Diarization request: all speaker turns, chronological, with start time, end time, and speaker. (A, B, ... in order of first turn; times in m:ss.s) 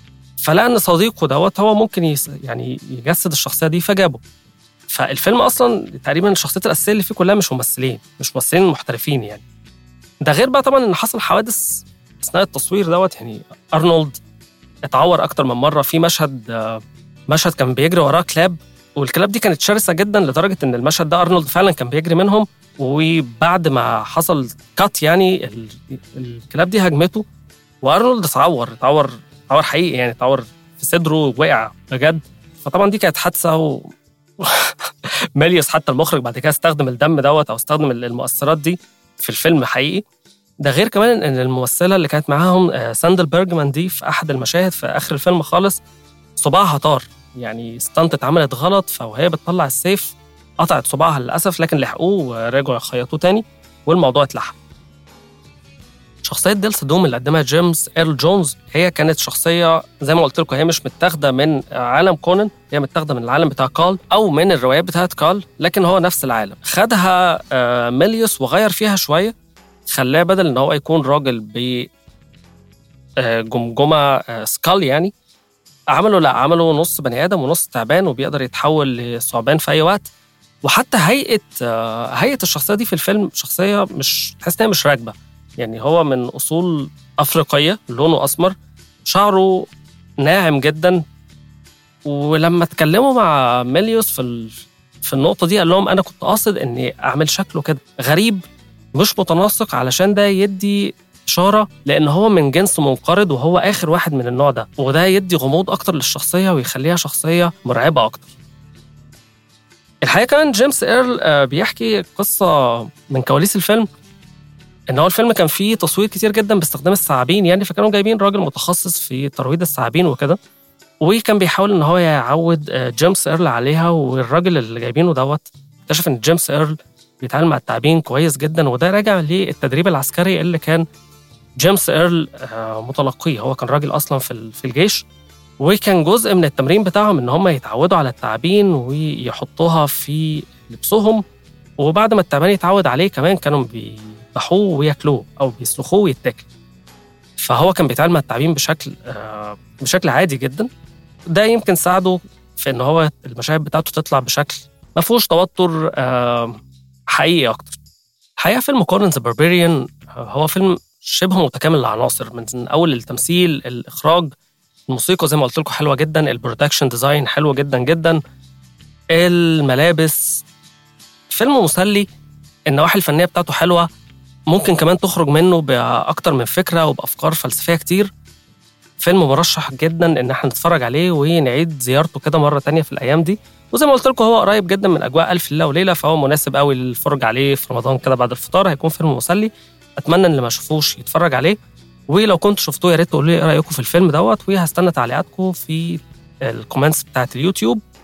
0:00.4-0:04.2 A
0:04.9-0:09.4 A
0:10.2-0:14.2 A
0:14.9-0:27.2 A
0:27.8-0:40.0 A
0:40.6-0:45.8 A
0:46.4-0:54.6 A
0:56.2-1:09.4 A
1:09.9-1:11.9 A
1:13.2-1:15.1 A
1:15.9-1:20.1 A
1:20.6-1:29.7 A
1:30.2-1:31.0 A
1:32.1-1:38.4 A
1:39.0-1:48.3 A
1:50.0-1:53.9 A
1:54.9-2:00.4 A
2:01.0-2:10.8 A
2:11.6-2:15.0 A
2:15.6-2:21.2 A
2:21.8-2:26.5 A
2:27.4-2:30.7 A
2:31.3-2:36.6 A
2:37.1-2:37.8 A
2:38.4-2:44.3 A
2:44.9-2:48.2 A
2:49.1-2:50.4 A
2:51.3-2:52.1 A
2:52.7-2:53.9 A
2:54.5-2:58.1 A
2:59.0-3:11.6 A
3:12.1-3:17.8 A